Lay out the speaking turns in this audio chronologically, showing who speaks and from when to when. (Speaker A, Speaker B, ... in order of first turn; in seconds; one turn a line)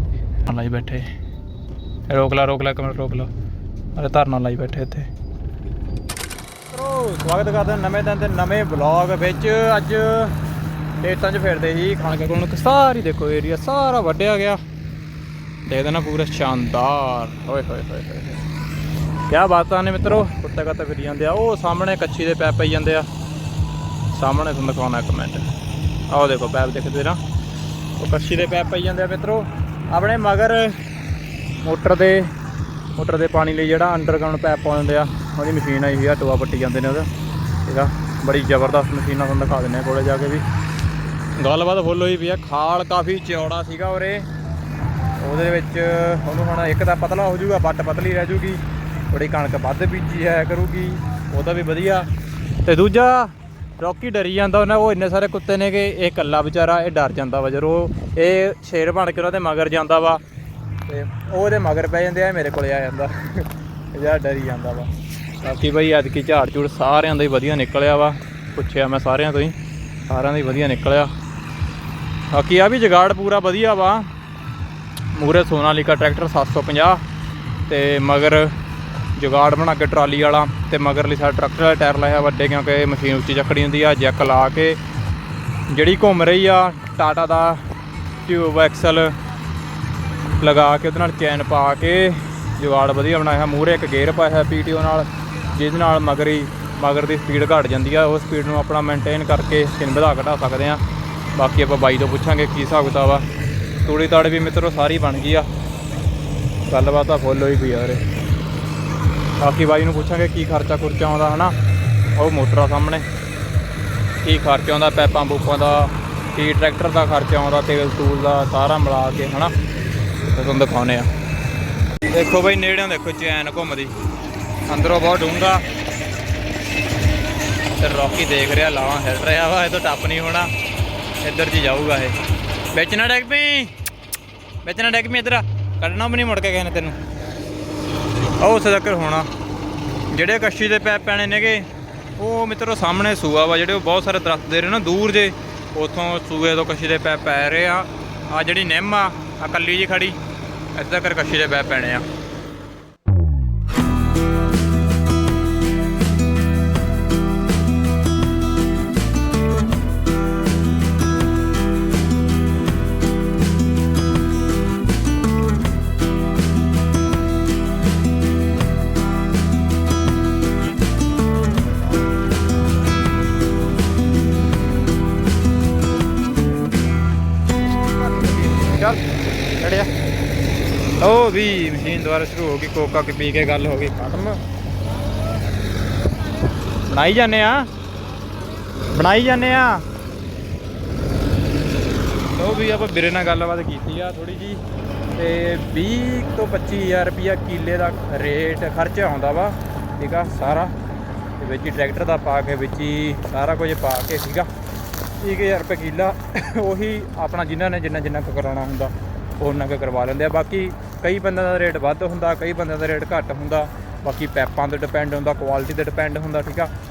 Speaker A: 0.4-1.1
Speaker A: 2.1-3.3
Speaker A: 3.9-5.1
Speaker A: 6.7-10.4
Speaker A: 11.0-14.6
Speaker A: 15.6-18.5
Speaker A: 19.3-23.1
Speaker A: 24.1-25.5
Speaker A: 26.1-27.2
Speaker A: 28.0-30.8
Speaker A: 31.6-32.3
Speaker A: 33.0-37.1
Speaker A: 37.6-40.4
Speaker A: 41.4-44.3
Speaker A: 45.2-52.1
Speaker A: 52.6-60.2
Speaker A: 60.9-69.6
Speaker A: 70.1-71.1
Speaker A: 72.3-74.1
Speaker A: 75.1-77.0
Speaker A: 77.7-78.6
Speaker A: 79.1-84.8
Speaker A: 85.7-87.7
Speaker A: 88.2-89.2
Speaker A: 90.3-103.3
Speaker A: 103.8-105.5
Speaker A: 106.7-108.0
Speaker A: 109.4-111.5
Speaker A: 112.1-113.0
Speaker A: 114.2-119.5
Speaker A: 120.3-121.1
Speaker A: 122.1-124.0
Speaker A: 124.7-125.7
Speaker A: 127.8-130.5
Speaker A: 131.2-132.2
Speaker A: 132.7-133.7
Speaker A: 134.6-137.0
Speaker A: 138.4-139.3
Speaker A: 140.1-150.2
Speaker A: 150.7-152.1
Speaker A: 177.9-179.9
Speaker A: 181.0-184.4
Speaker A: 186.8-187.7
Speaker A: 188.9-189.8
Speaker A: 192.3-200.7
Speaker A: 201.4-204.5
Speaker A: 205.2-216.7